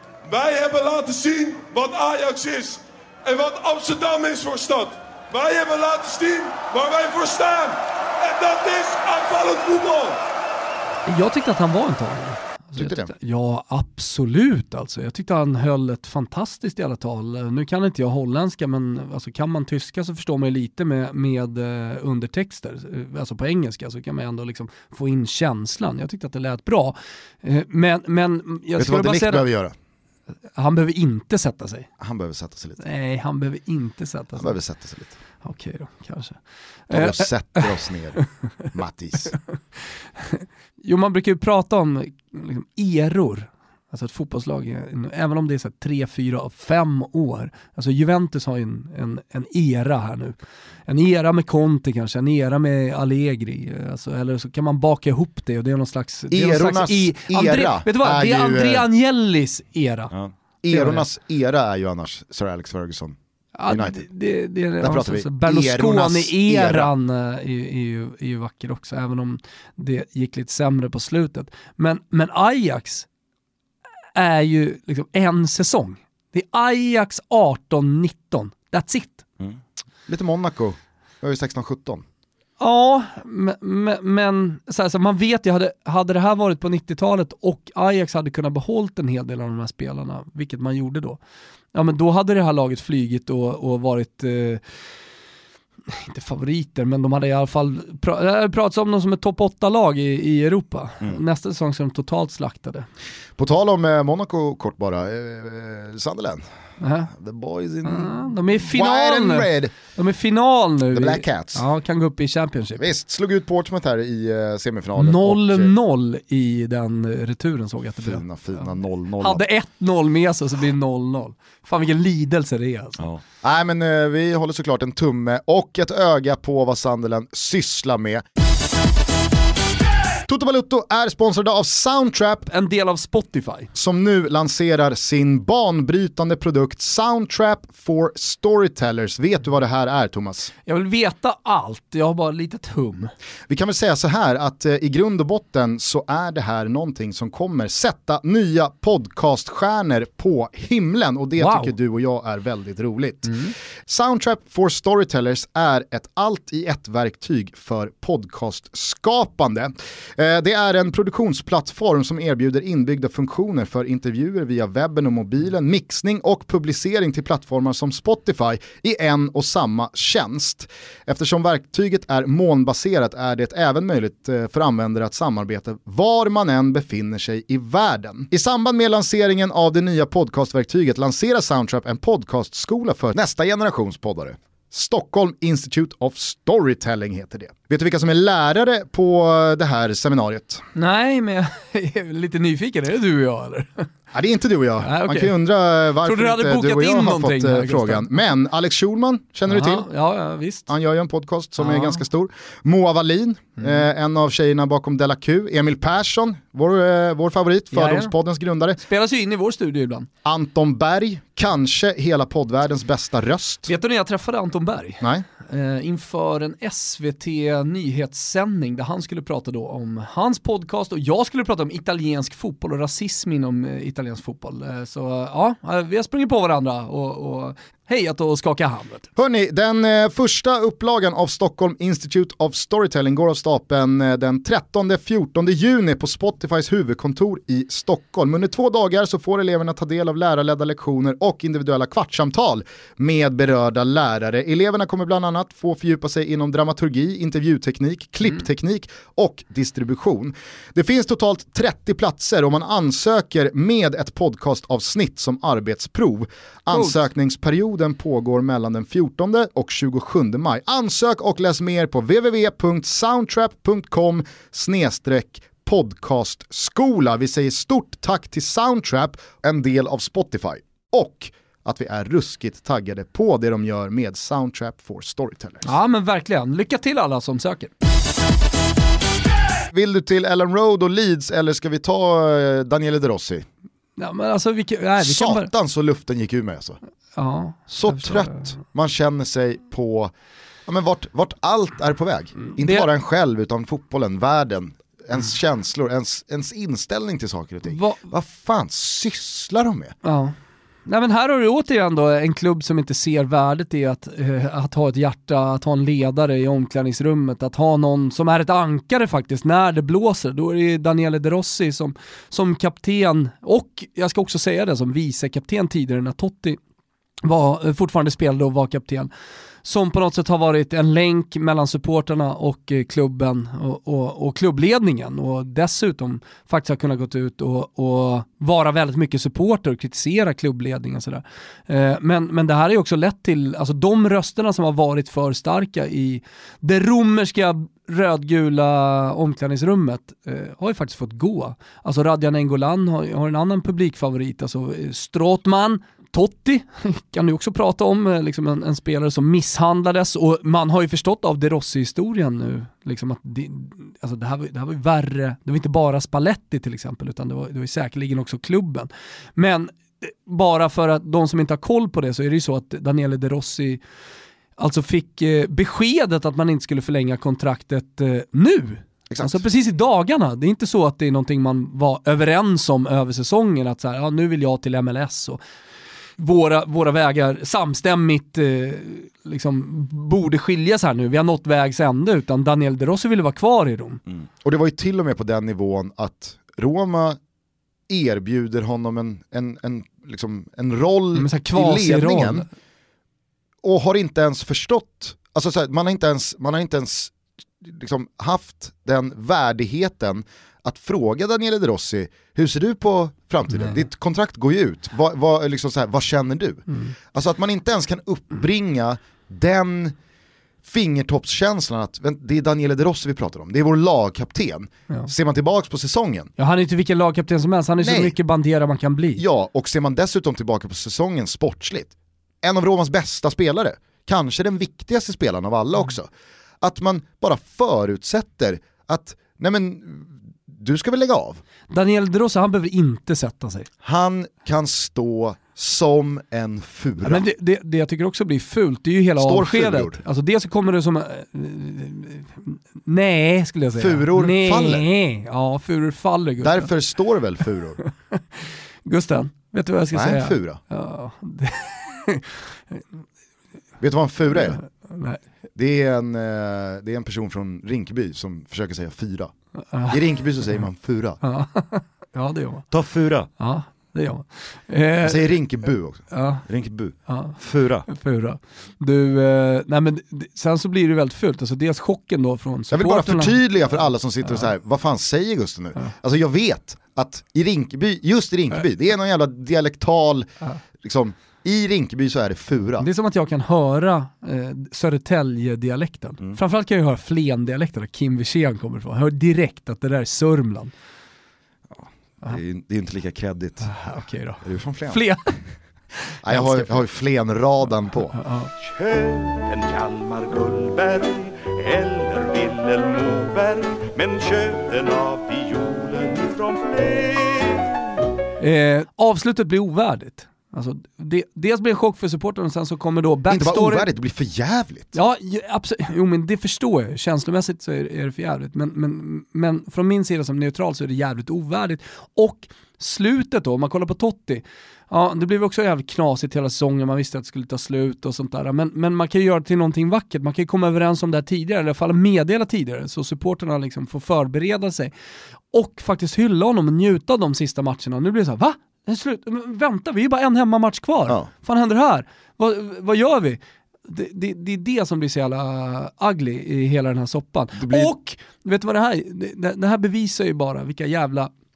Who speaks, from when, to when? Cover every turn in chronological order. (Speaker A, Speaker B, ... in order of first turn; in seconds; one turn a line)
Speaker A: 0.3-10.2
Speaker B: 11.1-29.5
Speaker C: 12.8-13.1
Speaker C: 28.8-29.7
Speaker B: 30.5-31.9
Speaker C: 32.0-32.9
Speaker B: 32.8-34.5
Speaker C: 34.4-35.1
Speaker B: 35.4-37.7
Speaker C: 36.9-39.4
Speaker B: 40.2-50.4
Speaker B: 50.9-60.1
Speaker C: 56.3-58.9
Speaker C: 60.1-63.1
Speaker B: 60.7-61.0
Speaker B: 63.5-73.1
Speaker C: 63.7-64.0
Speaker C: 64.8-66.9
Speaker B: 74.1-79.2
Speaker C: 79.4-82.0
Speaker B: 82.6-91.2
Speaker B: 91.7-94.6
Speaker B: 95.9-102.9
Speaker C: 103.4-106.4
Speaker B: 106.8-107.1
Speaker C: 107.1-109.7
Speaker B: 107.8-112.8
Speaker C: 110.9-111.6
Speaker C: 112.8-115.7
Speaker B: 115.0-123.0
Speaker C: 118.0-119.4
Speaker C: 123.0-128.2
Speaker C: 130.3-132.5
Speaker B: 132.5-133.7
Speaker C: 133.7-140.5
Speaker B: 140.7-143.1
Speaker C: 143.5-190.6
Speaker B: 151.4-151.7
Speaker B: 190.7-193.9
Speaker C: 194.1-199.9
Speaker B: 194.8-195.3
Speaker B: 196.0-198.2
Speaker B: 199.5-200.7
Speaker C: 200.7-208.8
Speaker B: 201.6-202.0
Speaker B: 207.7-208.1
Speaker B: 208.8-210.1
Speaker C: 210.2-213.7
Speaker B: 213.7-229.1
Speaker C: 229.2-275.7
Speaker B: 256.7-257.0
Speaker B: 275.6-277.7
Speaker C: 279.7-283.4
Speaker B: 284.0-285.5
Speaker C: 285.0-286.8
Speaker B: 287.1-288.4
Speaker C: 287.7-290.1
Speaker C: 290.7-299.9
Speaker B: 292.5-292.9
Speaker B: 297.7-298.0
Speaker B: 300.0-300.3
Speaker B: 300.9-316.6
Speaker B: 317.2-319.1
Speaker B: 319.6-363.8
Speaker B: 364.6-375.4
Speaker C: 369.1-369.4
Speaker B: 376.2-384.0
Speaker C: 384.1-387.2
Speaker C: 387.9-392.4
Speaker B: 391.1-392.5
Speaker C: 393.6-409.9
Speaker C: 410.6-416.3
Speaker B: 416.4-419.2
Speaker C: 417.8-418.1
Speaker C: 419.2-421.9
Speaker C: 422.4-426.1
Speaker C: 426.6-431.4
Speaker B: 431.7-433.7
Speaker C: 433.8-437.2
Speaker B: 437.0-446.7
Speaker C: 439.2-440.0
Speaker C: 443.8-444.9
Speaker C: 446.4-447.8
Speaker B: 447.8-452.8
Speaker C: 449.9-450.6
Speaker C: 453.8-454.6
Speaker B: 454.3-455.2
Speaker C: 455.6-459.3
Speaker B: 459.7-460.5
Speaker C: 459.9-461.2
Speaker B: 461.2-462.7
Speaker C: 462.7-463.3
Speaker B: 463.4-465.4
Speaker C: 465.0-467.9
Speaker B: 466.1-466.4
Speaker B: 467.1-473.4
Speaker C: 472.7-480.3
Speaker C: 480.8-482.9
Speaker B: 482.8-490.7
Speaker C: 491.8-495.0
Speaker B: 493.6-495.4
Speaker C: 496.2-498.2
Speaker B: 496.2-496.8
Speaker B: 498.1-498.5
Speaker D: 498.6-507.9
Speaker B: 508.4-513.9
Speaker C: 513.3-514.9
Speaker B: 514.9-534.9
Speaker B: 535.5-551.3
Speaker C: 547.6-547.9